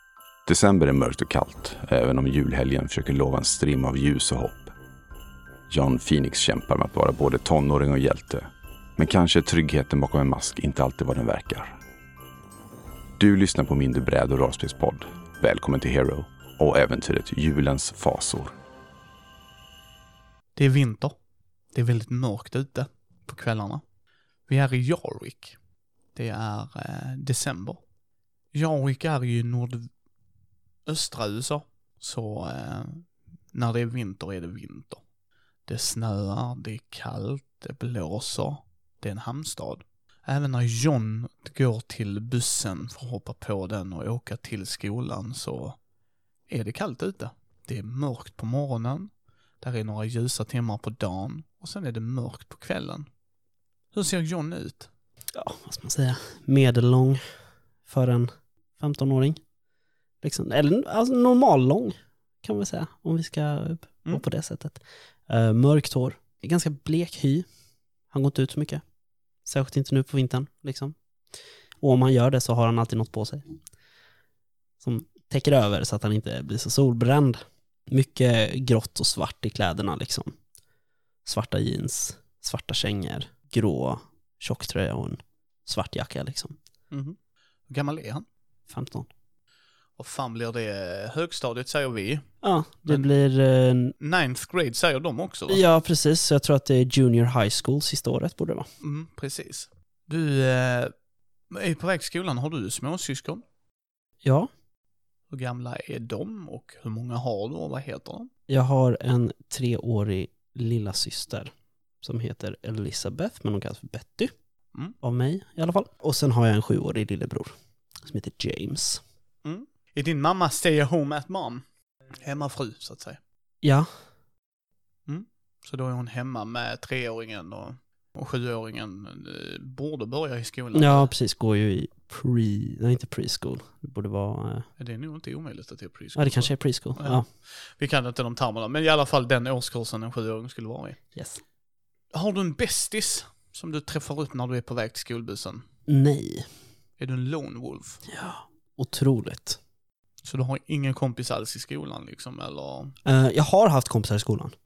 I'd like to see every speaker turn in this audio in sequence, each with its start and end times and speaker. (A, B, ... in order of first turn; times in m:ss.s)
0:00.4-0:04.7 A
0:05.7-0:08.4 A
0:09.0-0:11.8 A
0:13.2-0:18.5 A
0:20.6-0:21.2 B
0:21.7-0:23.8 B
0:24.5-0:25.6 B
0:26.1-0:27.8 B
0:28.5-0:29.9 B
0:30.8-0:35.0 B
0:35.7-0:45.8 B
0:46.5-0:49.1 B
0:49.6-0:53.1 B
0:53.9-0:54.9 B
0:55.3-0:57.2 C
0:57.8-0:59.4 C
1:00.2-1:07.4 C
1:08.1-1:08.8 C
1:09.4-1:11.0 C
1:11.8-1:13.4 C
1:14.8-1:20.4 C
1:21.2-1:26.6 C
1:26.9-1:27.2 B
1:27.7-1:28.2 B
1:28.7-1:29.1 C
1:30.0-1:32.2 B
1:32.4-1:33.9 C
1:34.0-1:35.6 B
1:35.5-1:38.7 C
1:38.8-1:40.9 B
1:41.5-1:43.4 B
1:44.2-1:44.5 C
1:45.3-1:48.3 B
1:48.5-1:51.5 C
1:52.0-1:54.3 C
1:55.0-1:59.0 C
1:59.4-2:03.2 B
2:03.6-2:03.9 C
2:05.1-2:11.1 B
2:10.7-2:14.7 C
2:14.8-2:21.0 B
2:16.2-2:17.3 C
2:21.1-2:21.4 C
2:22.1-2:25.6 B
2:25.9-2:26.5 C
2:27.0-2:28.0 B
2:28.0-2:29.6 C
2:30.2-2:32.9 B
2:33.0-2:34.5 C